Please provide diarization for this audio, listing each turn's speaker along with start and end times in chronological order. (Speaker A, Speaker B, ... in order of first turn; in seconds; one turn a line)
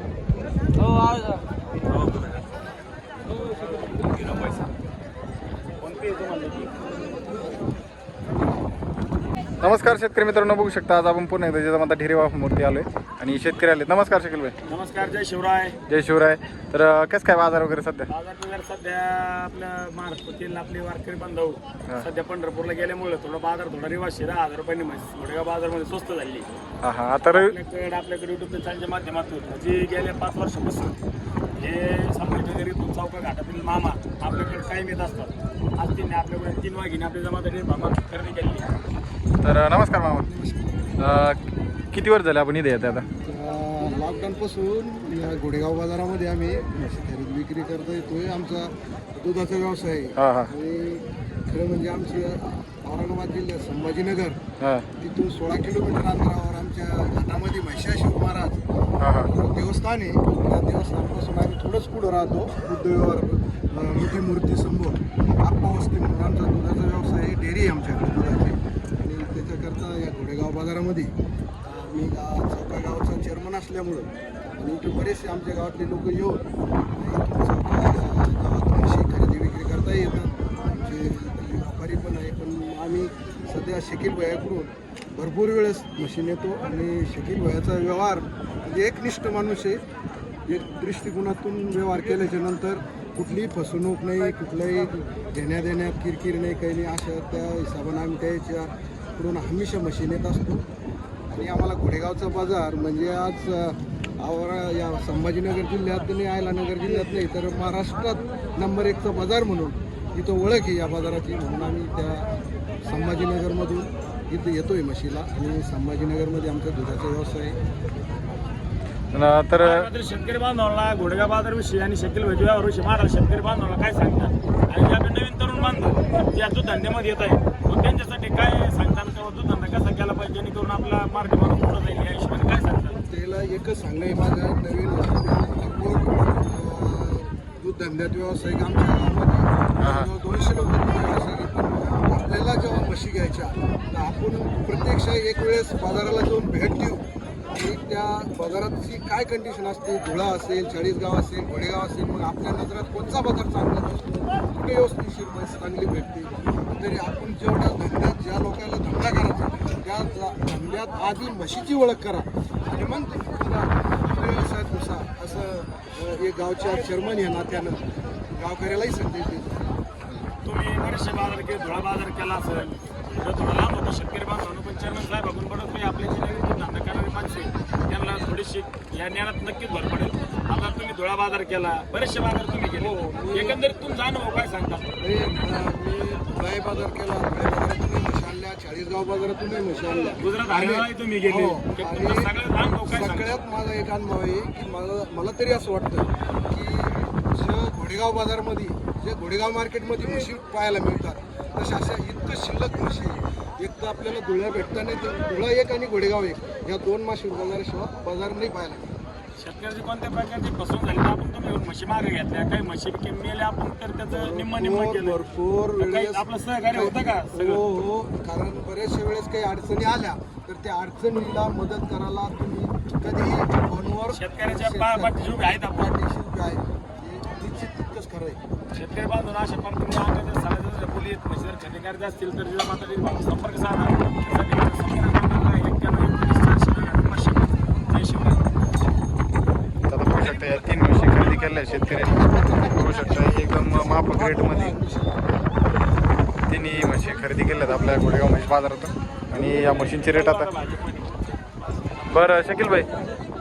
Speaker A: 0.8-2.4
Speaker A: 3.8-4.7
Speaker A: 5.8-6.7
Speaker B: 9.6-14.5
Speaker A: 14.7-15.8
Speaker B: 15.9-18.1
Speaker A: 18.1-26.5
Speaker B: 26.8-27.5
Speaker A: 27.3-31.0
Speaker A: 31.6-38.7
Speaker B: 39.4-40.3
Speaker C: 40.2-40.6
Speaker B: 41.0-41.4
Speaker B: 41.9-43.1
Speaker C: 43.2-54.4
Speaker B: 50.2-50.5
Speaker B: 54.6-54.9
Speaker C: 55.0-58.6
Speaker B: 59.0-59.3
Speaker C: 59.3-76.4
Speaker C: 77.0-89.8
Speaker C: 90.5-100.6
Speaker C: 101.3-112.3
Speaker C: 112.8-117.6
Speaker B: 119.1-119.9
Speaker A: 119.6-133.0
Speaker C: 133.1-167.8
Speaker B: 139.8-140.1
Speaker C: 168.3-169.8
Speaker A: 170.4-184.9
Speaker C: 182.8-183.6
Speaker C: 185.0-192.3
Speaker A: 190.1-193.4
Speaker C: 192.9-208.9
Speaker A: 209.4-215.2
Speaker C: 214.1-228.4
Speaker A: 215.8-217.6
Speaker A: 224.1-225.9
Speaker A: 228.7-238.4
Speaker B: 239.9-244.7
Speaker C: 243.7-245.3
Speaker B: 246.5-250.5
Speaker A: 249.4-251.3
Speaker A: 251.8-252.2
Speaker B: 252.1-252.9